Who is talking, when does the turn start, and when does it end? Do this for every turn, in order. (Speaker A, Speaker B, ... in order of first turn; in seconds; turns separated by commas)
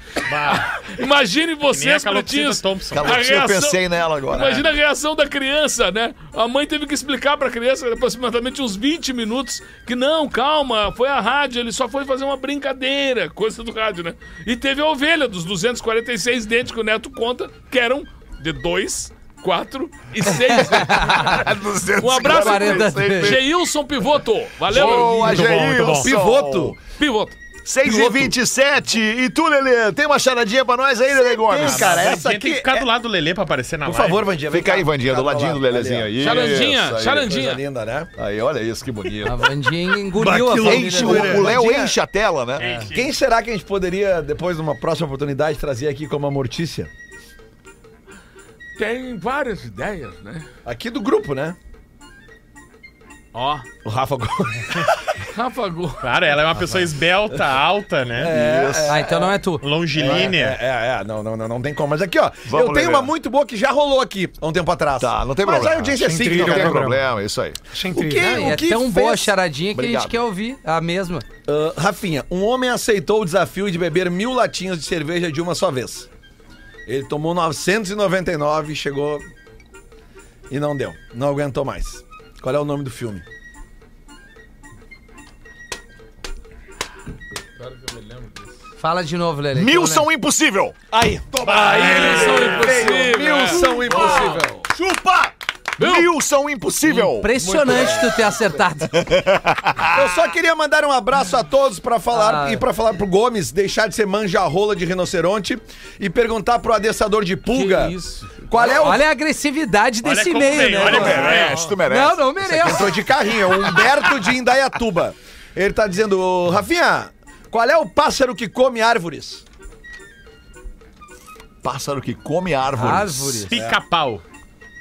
Speaker A: 0.2-0.9, Speaker B: 0.5-3.8, Speaker A: 1.7-3.3, Speaker C: 2.9-4.7, Speaker B: 4.3-21.4, Speaker C: 20.5-23.4, Speaker D: 20.8-21.4, Speaker B: 22.0-25.5, Speaker D: 22.2-23.4, Speaker C: 24.7-26.8, Speaker E: 24.8-26.8, Speaker F: 25.2-26.1, Speaker A: 25.6-26.0, Speaker B: 27.0-27.4, Speaker C: 27.6-32.0, Speaker E: 27.8-28.3, Speaker E: 31.1-32.9, Speaker A: 31.6-34.3, Speaker E: 33.8-36.7, Speaker C: 34.5-37.3, Speaker B: 36.2-37.6, Speaker E: 37.2-38.1, Speaker C: 38.2-39.5, Speaker D: 39.2-41.5, Speaker F: 40.2-41.4, Speaker E: 40.2-42.0, Speaker C: 40.6-42.7, Speaker A: 42.6-43.1, Speaker E: 42.9-46.9, Speaker B: 48.8-50.5, Speaker E: 50.6-51.5, Speaker B: 53.3-53.6, Speaker E: 53.8-55.0, Speaker B: 55.3-56.1, Speaker A: 56.0-58.3, Speaker E: 58.2-59.4, Speaker C: 58.2-59.0, Speaker D: 58.9-59.7, Speaker A: 59.6-60.6, Speaker E: 59.9-66.8, Speaker C: 62.4-63.1, Speaker C: 65.0-67.6, Speaker F: 66.0-67.1, Speaker F: 67.7-68.6, Speaker E: 67.9-69.3, Speaker D: 68.2-71.2, Speaker C: 69.7-70.2, Speaker E: 71.5-76.1, Speaker E: 76.9-79.2, Speaker E: 80.5-83.2, Speaker B: 87.6-88.4, Speaker D: 88.8-90.1, Speaker C: 89.5-90.8, Speaker E: 90.9-94.7, Speaker A: 91.4-92.8, Speaker B: 91.5-94.4, Speaker C: 92.5-97.5, Speaker B: 95.8-96.1, Speaker D: 96.8-99.0, Speaker E: 97.4-98.3, Speaker C: 98.9-100.2, Speaker E: 99.9-109.0, Speaker D: 102.1-102.6, Speaker B: 107.5-108.3, Speaker D: 108.6-113.0, Speaker A: 110.0-111.7, Speaker C: 110.8-112.9, Speaker E: 112.5-119.4, Speaker C: 121.6-123.5, Speaker D: 122.7-123.5, Speaker A: 123.5-124.2, Speaker E: 123.5-123.8